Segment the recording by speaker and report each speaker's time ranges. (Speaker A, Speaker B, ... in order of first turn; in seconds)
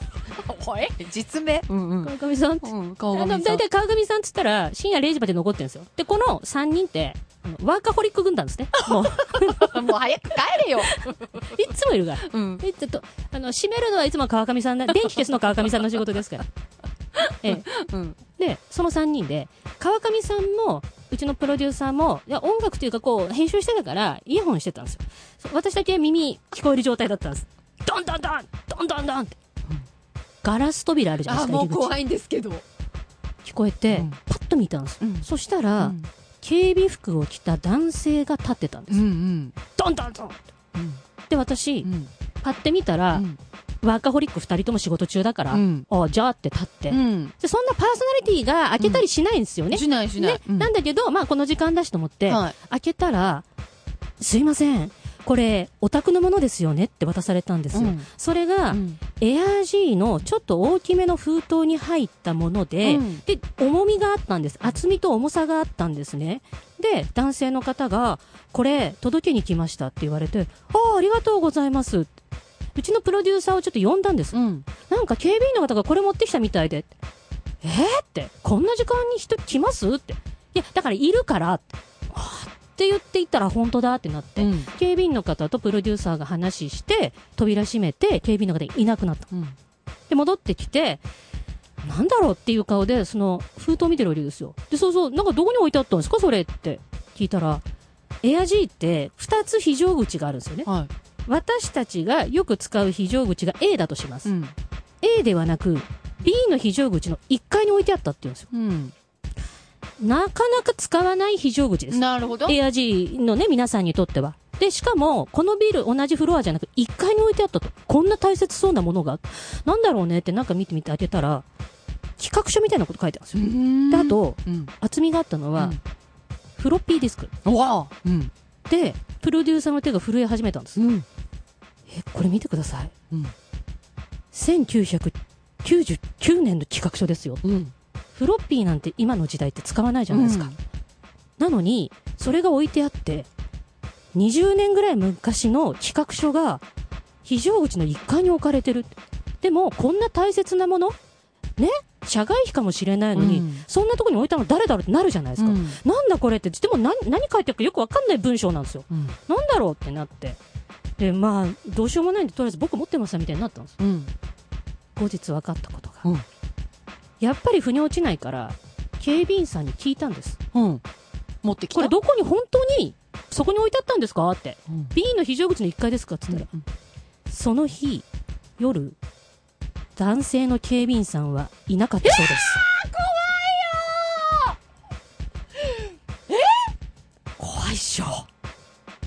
Speaker A: 0.2-3.6, 8.9-11.3, 12.2-12.6, 17.2-18.2, 31.2-32.6, 33.9-34.2, 35.0-36.1, 38.9-39.6, 40.7-41.0, 41.8-42.1, 43.1-43.4, 45.5-45.9, 46.9-47.3, 48.8-49.0, 49.7-50.7, 52.3-52.5, 57.7-58.1, 58.7-59.0, 62.8-63.2, 74.3-74.7, 84.4-84.7, 89.3-89.6, 100.6-100.9, 104.2-104.5, 108.5-108.9, 111.9-112.6, 123.3-124.7, 125.5-125.8, 127.4-128.3, 130.8-131.1, 137.4-137.7, 140.1-140.6, 153.1-153.7, 155.4-155.8, 158.9-159.2, 163.8-164.1, 170.5-170.8, 171.4-171.9, 174.7-174.9, 176.3-176.6, 182.0-184.6, 185.6-186.7
Speaker B: 2.0-9.8, 10.8-16.4, 17.4-17.7, 18.3-29.4, 30.4-31.9, 33.4-39.0, 39.7-40.4, 41.3-41.9, 42.4-43.2, 43.8-53.4, 54.2-72.1, 72.7-76.9, 77.6-89.3, 90.1-91.0, 91.8-97.6, 98.2-100.7, 101.2-104.3, 105.0-108.5, 110.0-121.4, 122.2-125.8, 126.5-127.3, 128.7-130.8, 131.9-132.9, 134.3-137.4, 138.1-140.5, 141.4-143.3, 144.1-146.6, 147.2-150.9, 151.6-160.4, 161.0-163.7, 164.9-166.1, 167.2-170.4, 171.7-176.5, 177.3-178.1, 178.6-179.0, 179.9-182.6, 187.4-188.2